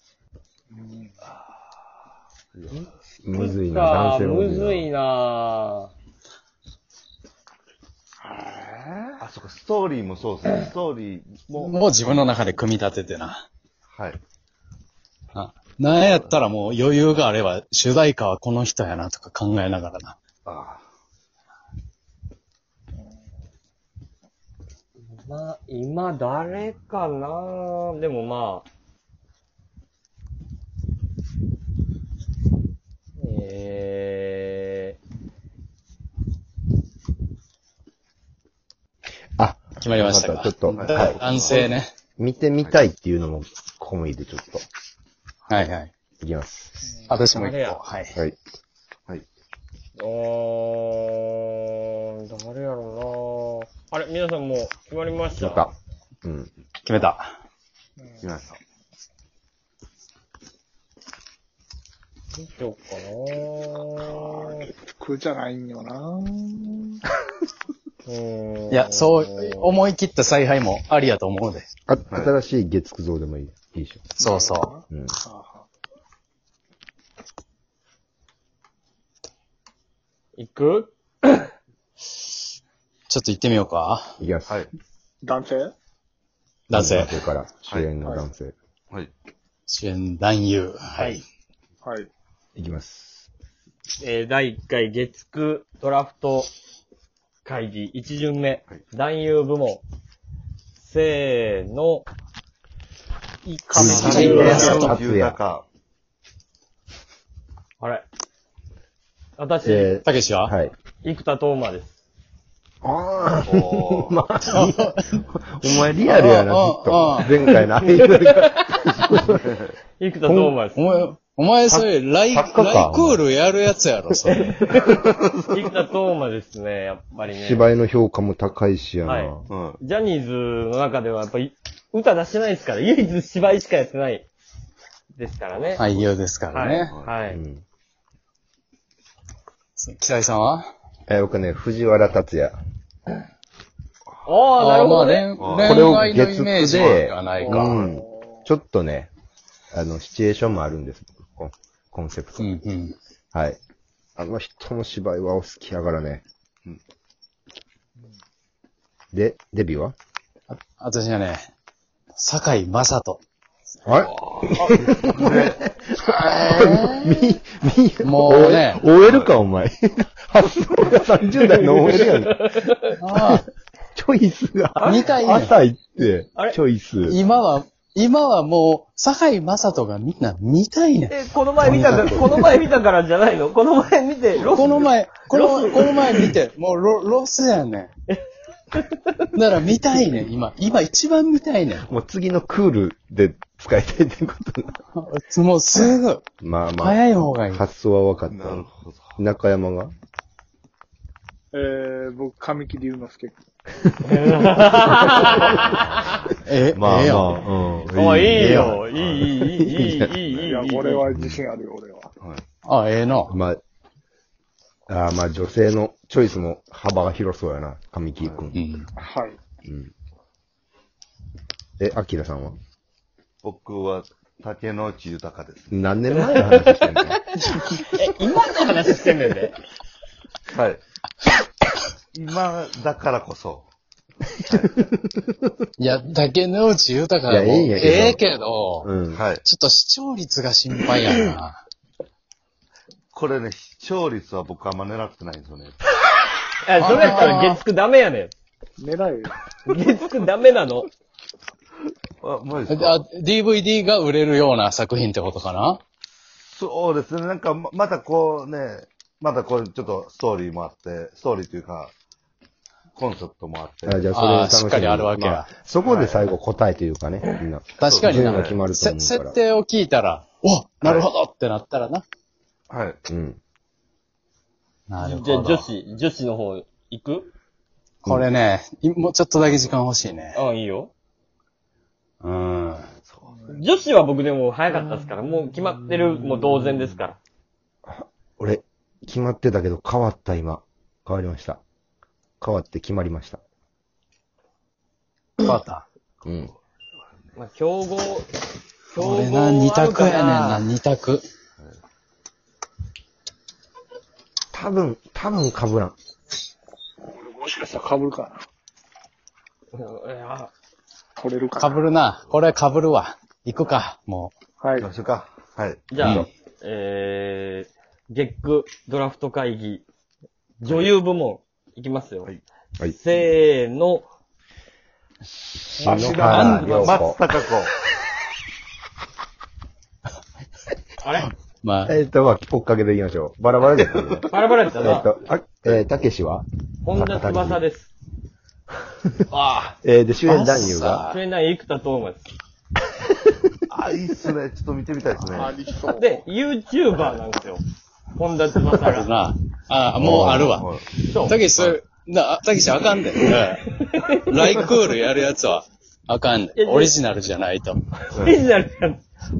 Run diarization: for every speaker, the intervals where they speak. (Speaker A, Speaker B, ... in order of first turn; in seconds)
Speaker A: 0.7-1.1, 8.2-9.2, 58.0-58.2, 64.2-67.0, 74.2-75.7, 85.2-85.7, 88.0-88.2, 91.8-92.1, 103.5-104.8, 147.4-148.4, 201.5-203.4, 210.4-212.1, 219.0-219.4, 248.8-249.3, 307.1-308.4, 311.2-311.7, 314.6-314.9, 345.3-346.1
Speaker B: 2.5-2.9, 9.2-11.8, 13.9-14.2, 16.0-16.3, 20.4-20.8, 40.7-41.7, 58.2-58.6, 103.8-105.6, 113.5-114.2, 124.8-125.7, 129.5-129.8, 145.4-145.9, 147.6-148.0, 164.8-165.6, 198.3-199.2, 207.8-210.4, 223.4-225.7, 230.5-230.8, 232.1-233.7, 239.1-239.4, 243.1-245.8, 252.2-253.0, 256.4-261.9, 262.9-264.1, 265.8-266.3, 267.8-268.6, 272.7-273.0, 314.8-315.9, 320.6-320.9, 325.8-327.7, 343.7-345.6, 350.1-350.8
Speaker C: 2.7-5.9, 25.1-28.6, 33.2-35.0, 47.3-47.8, 50.0-55.7, 62.4-64.7, 68.0-69.8, 80.3-81.5, 91.0-91.2, 94.0-96.5, 97.4-99.8, 100.8-102.0, 103.8-104.8, 107.8-108.0, 109.4-110.0, 111.0-112.0, 117.9-118.8, 120.0-120.8, 124.3-125.0, 125.5-127.7, 129.0-134.3, 135.1-135.8, 136.5-137.4, 144.2-145.3, 171.8-172.9, 174.8-175.1, 181.1-185.9, 188.7-189.0, 204.0-206.2, 207.9-211.0, 226.1-229.5, 246.6-248.3, 249.6-250.9, 275.0-277.3, 280.3-280.9, 283.5-287.2, 297.4-298.4, 298.9-300.7, 309.7-310.5, 315.9-319.8, 320.6-322.3, 322.9-324.1, 331.0-331.3, 334.3-335.1, 336.8-337.9, 339.3-339.7, 341.0-342.3, 345.9-347.6, 348.1-349.1, 351.0-351.4, 353.7-354.8, 356.6-356.9, 358.1-359.0
Speaker D: 3.2-4.9, 39.4-44.6, 46.2-46.7, 55.4-55.7, 56.2-56.5, 71.9-74.1, 74.9-75.2, 84.2-84.6, 86.7-88.5, 92.5-93.3, 103.7-105.4, 109.6-110.7, 112.8-119.5, 121.7-123.2, 127.3-129.5, 137.3-137.6, 141.1-142.6, 145.6-149.1, 149.7-152.5, 153.3-153.6, 154.2-156.2, 159.1-159.9, 163.8-172.5, 173.9-177.2, 181.6-182.5, 184.6-184.9, 191.9-194.8, 196.4-198.7, 199.2-199.9, 206.7-208.8, 211.1-211.4, 213.3-213.6, 214.9-218.6, 219.6-219.9, 221.8-222.6, 225.7-227.2, 234.5-235.5, 237.3-238.2, 238.8-239.2, 263.8-269.3, 273.1-273.4, 287.9-291.6, 292.4-293.4, 296.2-296.5, 304.5-305.9, 316.0-316.3, 325.3-327.2, 331.9-337.6, 339.8-341.1, 343.1-343.4, 350.0-350.5
Speaker E: 11.5-13.4, 15.3-20.1, 39.8-41.9, 45.5-45.9, 47.1-48.1, 56.8-57.3, 68.7-71.7, 74.2-74.7, 83.1-84.1, 86.7-87.2, 89.7-91.2, 103.8-104.9, 110.0-110.5, 114.5-115.0, 116.0-117.5, 120.2-124.6, 135.8-136.9, 139.8-140.7, 144.6-147.8, 152.4-152.9, 160.5-161.5, 162.1-163.2, 166.0-167.4, 168.0-168.9, 173.0-173.5, 174.8-175.5, 177.1-182.4, 184.4-187.9, 189.3-191.9, 194.9-196.2, 196.8-197.6, 206.4-207.4, 208.3-208.8, 212.6-213.3, 218.5-218.9, 235.8-241.6, 246.8-247.6, 252.7-255.8, 264.1-265.5, 267.8-272.0, 274.9-275.7, 278.0-280.4, 282.2-282.8, 295.4-295.8, 298.9-301.2, 311.6-314.3, 316.0-316.3, 325.9-327.0, 331.2-331.9, 340.2-341.2, 348.7-357.8